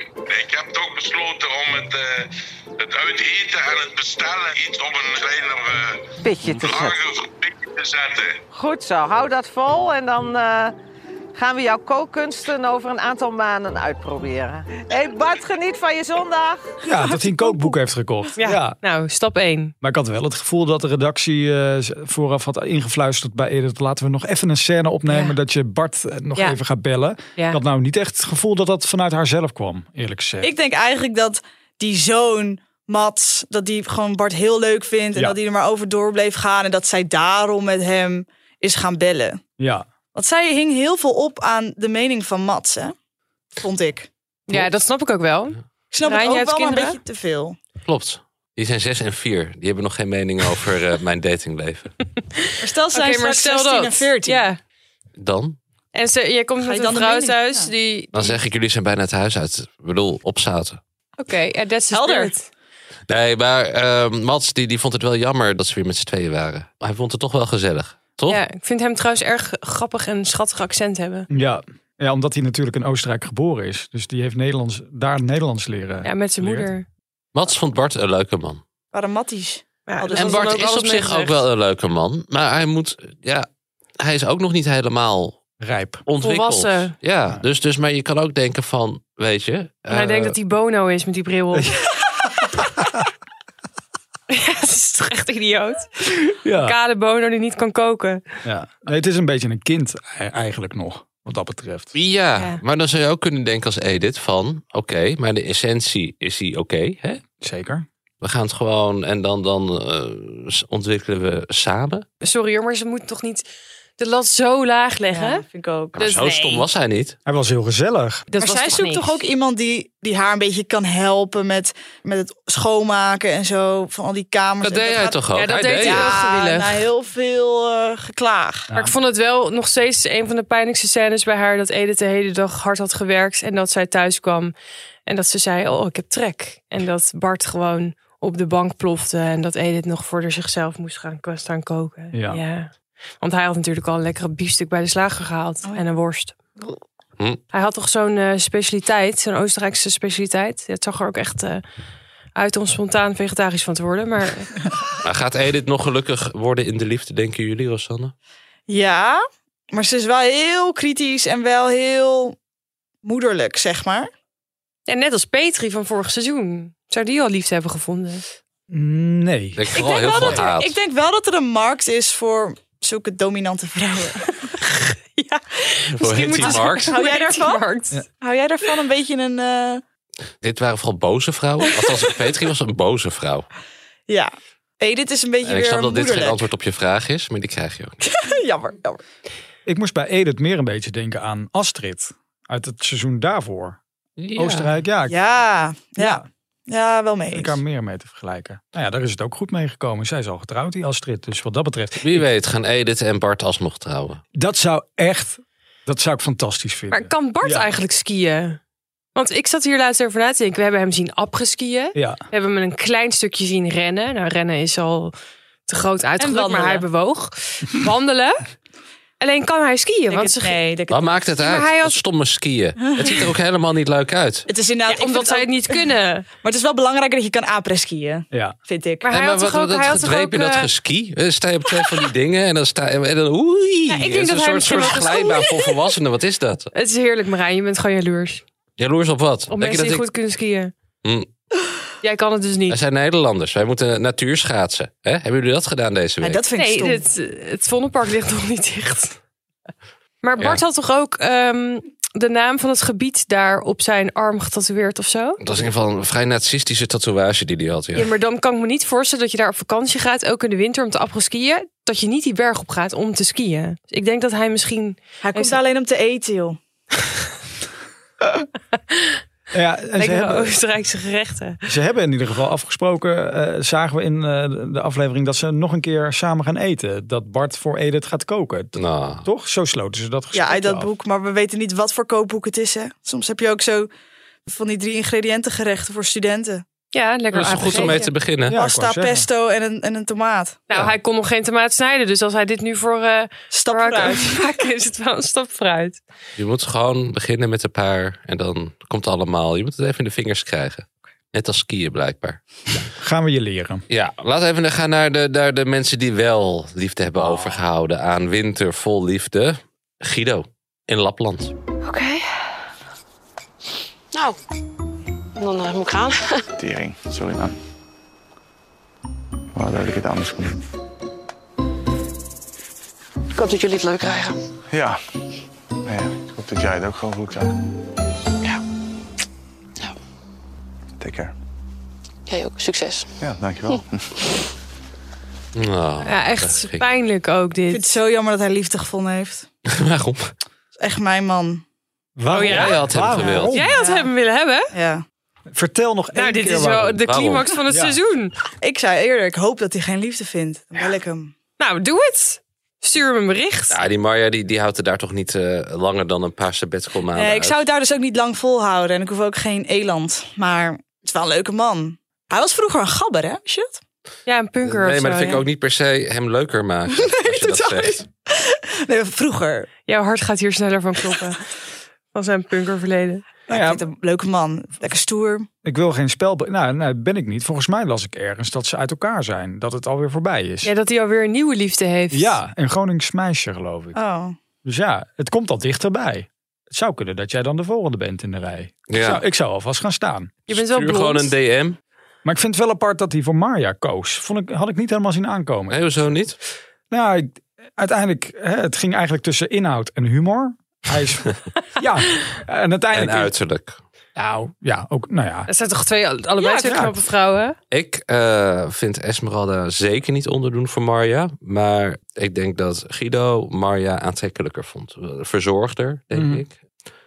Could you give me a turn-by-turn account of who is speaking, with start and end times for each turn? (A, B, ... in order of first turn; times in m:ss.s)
0:00.3-0:02.3 A
0:02.8-0:08.4 A
0:06.2-0:07.0 B
0:08.5-0:10.8 B
0:11.4-0:16.6 B
0:16.8-0:18.8 C
0:17.1-0:17.4 D
0:18.4-0:19.7 E
0:19.8-0:30.5 C
0:25.1-0:25.4 E
0:30.4-0:39.4 D
0:39.6-0:39.8 C
0:40.2-0:43.0 D
0:43.6-0:44.1 D
0:44.5-0:47.0 E
0:45.9-0:47.6 D
0:47.8-0:51.9 F
0:52.5-0:54.6 E
0:52.6-0:54.4 D
0:55.2-0:55.6 F
0:55.9-0:58.4 E
0:56.6-0:57.7 D
0:58.1-1:00.8 F
1:01.2-1:02.5 E
1:01.9-1:02.3 D
1:03.1-1:08.4 F
1:08.3-1:11.3 E
1:11.3-1:16.7 C
1:16.0-1:16.9 E
1:17.3-1:18.6 F
1:18.9-1:20.6 D
1:19.9-1:21.4 E
1:20.2-1:23.5 F
1:24.0-1:25.4 F
1:25.6-1:26.0 C
1:26.1-1:30.4 F
1:26.2-1:26.9 E
1:29.9-1:31.8 E
1:31.5-1:31.8 C
1:34.3-1:38.2 E
1:36.4-1:36.8 C
1:38.4-1:41.9 C
1:41.9-1:47.2 F
1:47.4-1:47.9 C
1:48.2-1:52.0 F
1:52.2-1:53.4 E
1:54.0-1:55.4 E
1:55.1-1:56.0 D
1:56.0-1:56.6 E
1:56.0-1:57.2 F
1:57.3-1:58.3 C
1:58.3-1:59.1 E
1:58.4-2:08.7 D
2:04.6-2:06.2 F
2:05.3-2:06.8 E
2:08.7-2:14.5 E
2:15.1-2:26.4 E
2:22.1-2:22.4 C
2:27.5-2:31.6 E
2:32.4-2:34.5 E
2:35.0-2:38.1 F
2:38.7-2:42.4 D
2:43.0-2:44.1 D
2:44.9-2:48.2 E
2:48.7-2:49.7 C
2:49.6-2:50.8 F
2:49.7-2:54.5 D
2:54.6-2:58.0 E
2:56.0-2:56.9 F
2:56.4-2:57.7 D
2:58.2-2:59.8 D
3:00.4-3:03.5 F
3:04.1-3:06.4 D
3:05.4-3:08.0 F
3:08.1-3:09.0 D
3:09.7-3:13.8 C
3:14.2-3:14.7 F
3:14.4-3:15.2 C
3:15.1-3:17.6 D
3:16.0-3:16.3 C
3:17.3-3:22.3 C
3:22.0-3:24.2 F
3:24.4-3:27.7 C
3:26.9-3:28.6 E
3:29.2-3:35.1 E
3:32.0-3:32.2 C
3:35.7-3:38.4 E
3:36.2-3:36.8 D
3:39.2-3:40.6 E
3:40.1-3:41.1 D
3:40.9-3:44.5 F
3:41.4-3:42.0 E
3:44.5-3:45.8 D
3:44.9-3:46.3 E
3:46.4-3:49.1 D
3:49.0-3:50.7 E
3:49.1-3:56.7 F
3:53.9-3:55.5 E
3:56.7-3:58.4 E
3:58.8-4:00.1 F
3:59.5-4:00.7 E
4:02.0-4:02.8 E
4:02.7-4:06.4 F
4:06.2-4:07.0 D
4:06.6-4:09.2 E
4:10.2-4:15.4 E
4:15.4-4:18.1 F
4:18.0-4:25.6 E
4:25.2-4:26.6 D
4:28.9-4:29.2 E
4:29.5-4:30.6 C
4:30.0-4:31.6 E
4:31.7-4:40.9 C
4:38.8-4:39.3 F
4:40.3-4:43.9 D
4:44.5-4:46.6 D
4:46.9-4:48.1 E
4:47.3-4:48.6 F
4:48.5-4:49.3 C
4:48.5-4:50.6 D
4:50.7-4:56.0 E
4:53.5-4:54.4 D
4:56.4-5:02.4 F
5:03.0-5:03.8 C
5:03.9-5:11.5 F
5:11.8-5:12.3 G
5:14.1-5:14.4 G
5:15.4-5:16.4 G
5:16.6-5:17.6 H
5:19.6-5:20.6 H
5:23.3-5:24.4 G
5:24.7-5:25.0 H
5:25.9-5:27.5 H
5:31.0-5:31.3 H
5:32.3-5:33.1 G
5:33.2-5:34.1 H
5:35.6-5:36.8 F
5:36.0-5:37.9 E
5:37.7-5:39.5 D
5:39.7-5:40.3 F
5:40.8-5:41.6 D
5:42.2-5:43.8 C
5:42.3-5:42.8 E
5:42.4-5:43.5 F
5:43.5-5:44.7 E
5:43.8-5:44.1 D
5:44.7-5:45.0 D
5:45.5-5:47.0 C
5:46.1-5:48.3 E
5:47.0-5:47.5 F
5:47.7-5:48.0 C
5:48.6-5:51.3 D
5:51.6-5:53.8 E
5:53.7-5:57.6 F
5:57.1-6:03.8 D
6:04.3-6:05.4 E
6:04.6-6:08.0 F
6:07.0-6:09.7 D
6:09.9-6:11.4 E
6:12.1-6:13.2 E
6:13.5-6:13.8 C
6:13.5-6:15.5 D
6:15.6-6:20.7 C
6:20.6-6:22.4 E
6:22.1-6:24.0 C
6:23.9-6:24.4 D
6:24.6-6:30.3 C
6:28.9-6:29.2 F
6:30.5-6:31.3 E
6:30.5-6:31.8 F
6:32.2-6:36.1 C
6:35.7-6:36.4 F
6:36.9-6:43.3 C
6:42.9-6:43.8 F
6:44.2-6:45.5 C
6:45.5-6:47.6 E
6:46.4-6:46.9 C
6:47.7-6:56.5 F
6:56.1-6:56.4 C